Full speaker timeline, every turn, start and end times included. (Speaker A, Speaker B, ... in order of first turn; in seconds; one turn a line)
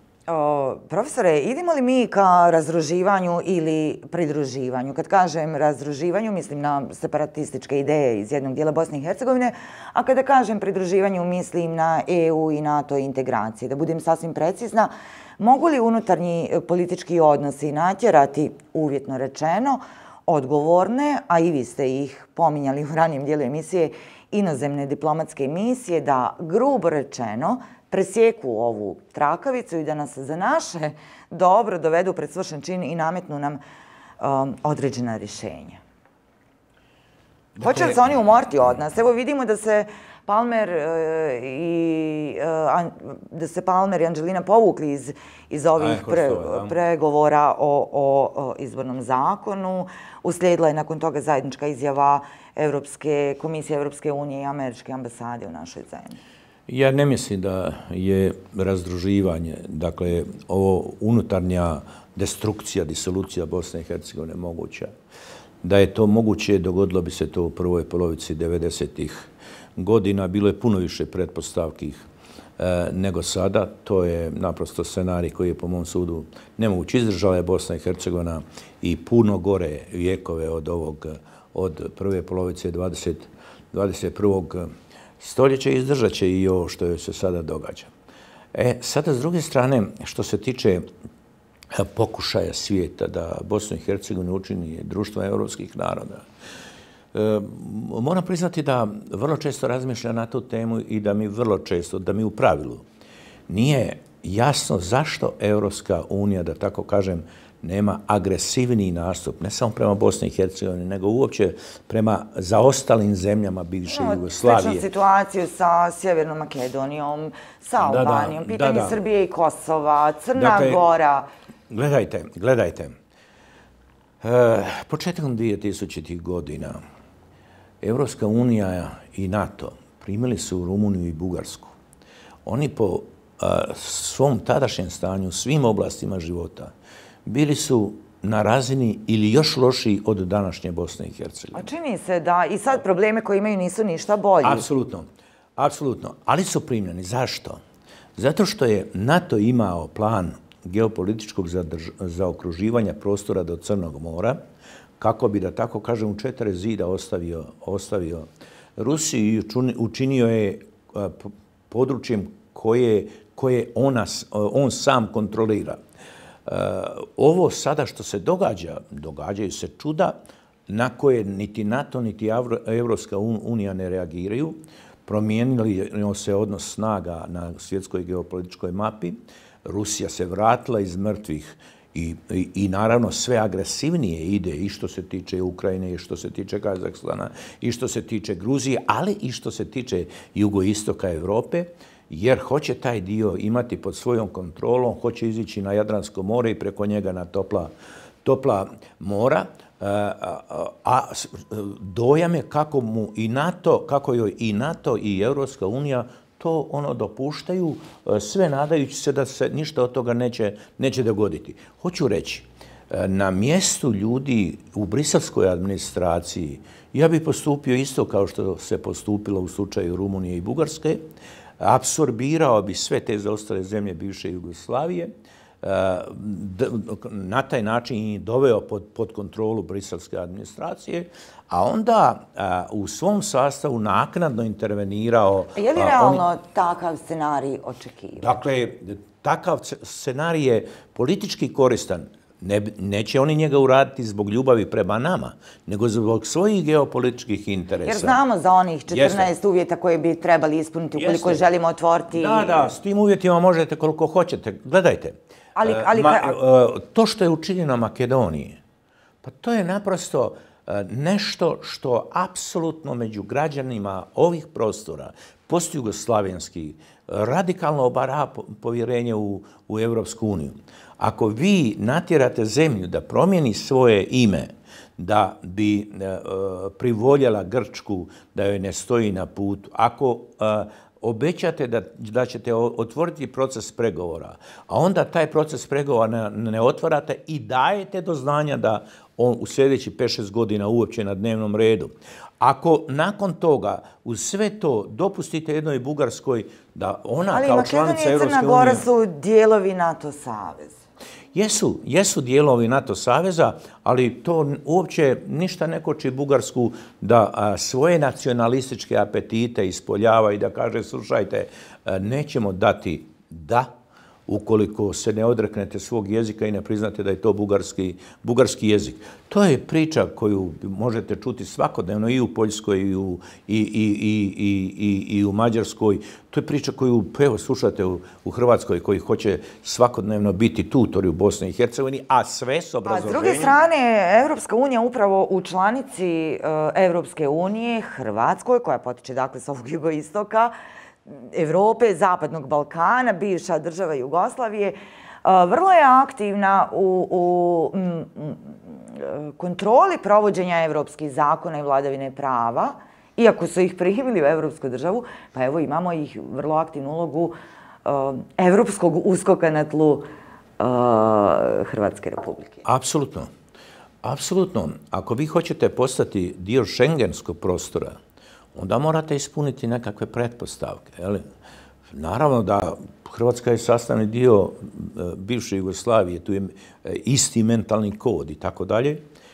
Speaker A: 0.3-33.6
Speaker A: 34.2-35.8
Speaker B: 37.6-38.0
Speaker A: 37.6-56.2
Speaker B: 45.8-46.8
Speaker B: 56.7-64.9
Speaker B: 65.6-72.0
Speaker B: 72.6-84.7
Speaker B: 85.2-87.9
Speaker B: 88.5-90.9
Speaker B: 91.7-96.3
Speaker B: 97.1-102.8
Speaker B: 103.5-114.9
Speaker A: 113.9-121.3
Speaker B: 117.8-119.0
Speaker B: 120.3-120.9
Speaker B: 121.7-123.0
Speaker B: 124.2-126.8
Speaker B: 127.8-131.8
Speaker B: 132.4-136.7
Speaker B: 137.3-141.7
Speaker A: 141.5-144.7
Speaker B: 144.4-147.6
Speaker B: 148.2-154.4
Speaker B: 155.0-165.8
Speaker B: 166.5-197.7
Speaker B: 198.2-221.0
Speaker B: 221.6-225.1
Speaker B: 225.6-236.2
Speaker A: 235.6-238.4
Speaker B: 238.2-248.2
Speaker A: 247.8-252.8
Speaker B: 248.9-249.3
Speaker B: 251.0-251.4
Speaker B: 252.1-258.6
Speaker A: 255.6-256.4
Speaker B: 259.2-298.9
Speaker A: 297.3-300.8
Speaker B: 301.3-313.8
Speaker B: 314.3-333.6
Speaker A: 332.9-340.6
Speaker A: 341.1-362.6
Speaker B: 362.6-363.3
Speaker B: 364.0-368.0
Speaker B: 368.6-371.2
Speaker B: 371.9-379.0